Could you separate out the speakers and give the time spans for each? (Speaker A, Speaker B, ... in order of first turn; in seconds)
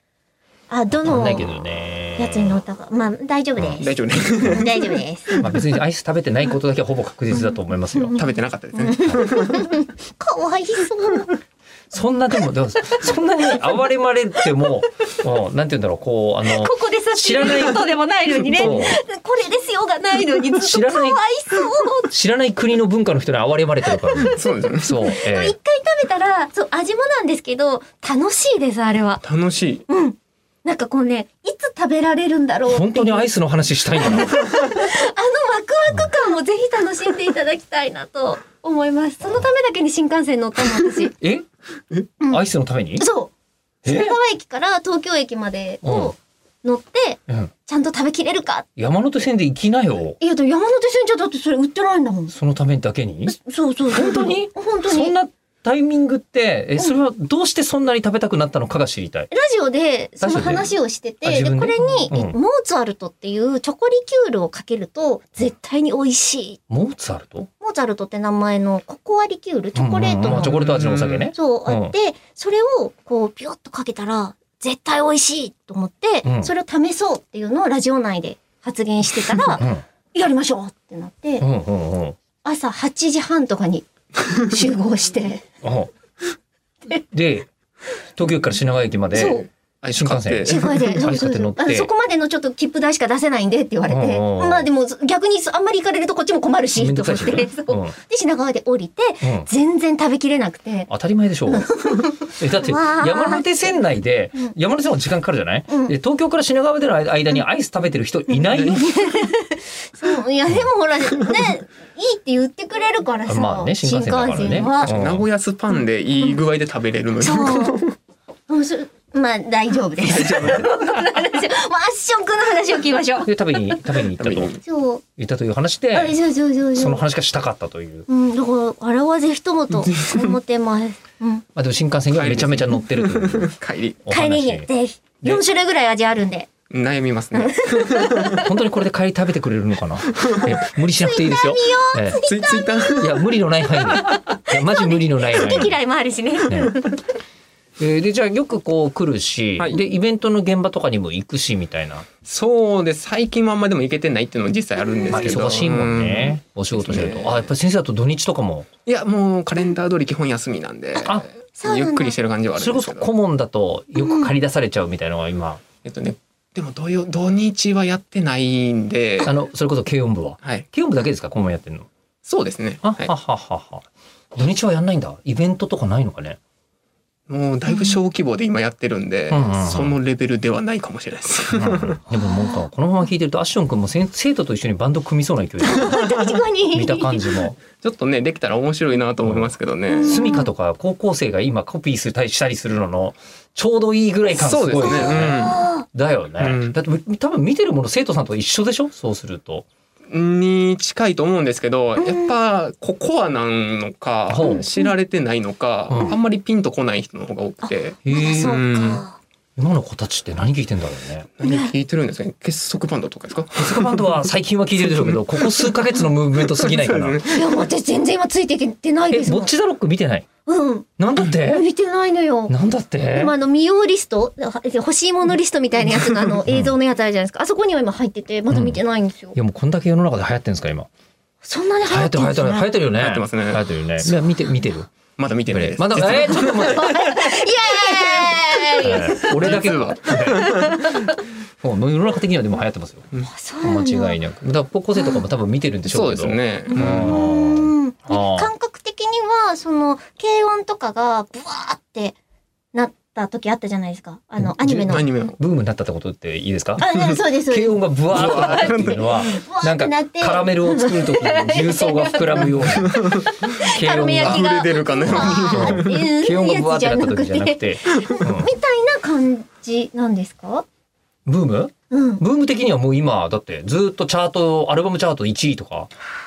Speaker A: 0.7-1.5, 2.2-5.4, 7.9-11.4, 16.5-22.1, 24.0-24.5, 25.0-29.2, 29.9-33.3, 34.0-41.1, 43.0-43.3, 43.8-48.7, 50.2-52.3, 53.3-55.1, 59.3-66.6, 67.6-70.5, 71.3-81.4, 82.4-85.4, 89.1-89.5, 90.5-100.9, 101.5-103.8, 105.7-105.9, 108.7-114.9, 117.2-117.9, 118.5-123.9, 124.6-125.0, 125.9-127.0, 128.1-131.4, 134.1-136.5, 137.3-138.5, 140.8-143.2, 143.8-146.9, 161.6-162.2, 164.0-164.3, 182.2-182.6, 185.6-187.3, 189.9-190.5, 194.8-195.8, 202.0-202.3, 204.4-204.9, 207.6-209.2, 211.4-211.7, 217.3-219.5, 220.4-222.5, 223.1-229.3, 231.4-232.7, 236.4-239.6, 240.4-241.1, 243.2-244.2, 244.9-245.2, 246.7-252.2, 252.7-255.3, 256.8-270.6, 271.9-272.2
Speaker B: 0.9-2.6, 5.4-8.1, 11.9-17.9, 18.4-19.0, 20.6-21.2, 22.1-25.5, 32.7-34.4, 41.2-41.5, 42.3-43.0, 43.8-44.1, 45.8-46.1, 48.8-50.2, 52.3-53.4, 53.9-59.3, 60.2-60.7, 61.2-62.4, 66.7-67.5, 69.7-71.9, 76.2-76.5, 79.6-79.8, 81.4-82.2, 85.6-85.9, 87.0-87.5, 88.2-91.9, 93.9-94.7, 96.8-97.9, 99.2-99.5, 100.9-101.7, 102.4-108.9, 113.3-115.2, 123.2-124.6, 125.2-126.2, 126.7-128.1, 131.5-134.7, 138.3-142.2, 143.0-145.7, 146.5-146.8, 147.8-152.1, 155.1-158.7, 162.6-165.6, 169.2-171.9, 172.8-176.4, 179.3-179.9, 181.5-186.2, 186.7-187.6, 190.0-195.4, 195.9-199.7, 204.3-204.6, 208.1-208.6, 209.6-211.3, 213.5-217.2, 219.1-220.3, 221.0-221.6, 222.5-223.3, 226.5-226.7, 228.5-228.8, 229.3-230.9, 231.8-234.9, 235.5-237.2, 238.8-240.8, 241.6-243.1, 243.6-248.5, 254.4-256.9, 257.5-264.4, 265.1-268.5, 271.2-275.9
Speaker C: 3.8-5.0, 8.1-9.7, 24.3-25.1, 29.2-29.9, 70.2-71.3, 89.8-90.8, 108.5-108.9, 114.7-117.8, 120.0-120.7, 124.2-124.6, 129.8-130.3, 132.1-134.0, 136.7-138.3, 142.2-143.2, 152.2-157.5, 158.8-163.1, 165.8-169.3, 172.2-173.1, 177.3-182.0, 187.8-190.3, 194.3-195.7, 196.4-196.8, 200.1-209.0, 211.4-214.1, 214.8-215.8, 216.4-217.7, 232.9-234.2, 235.2-237.3, 239.3-240.9, 245.9-247.2, 254.9-255.4, 258.1-259.2, 262.8-263.2, 264.2-266.1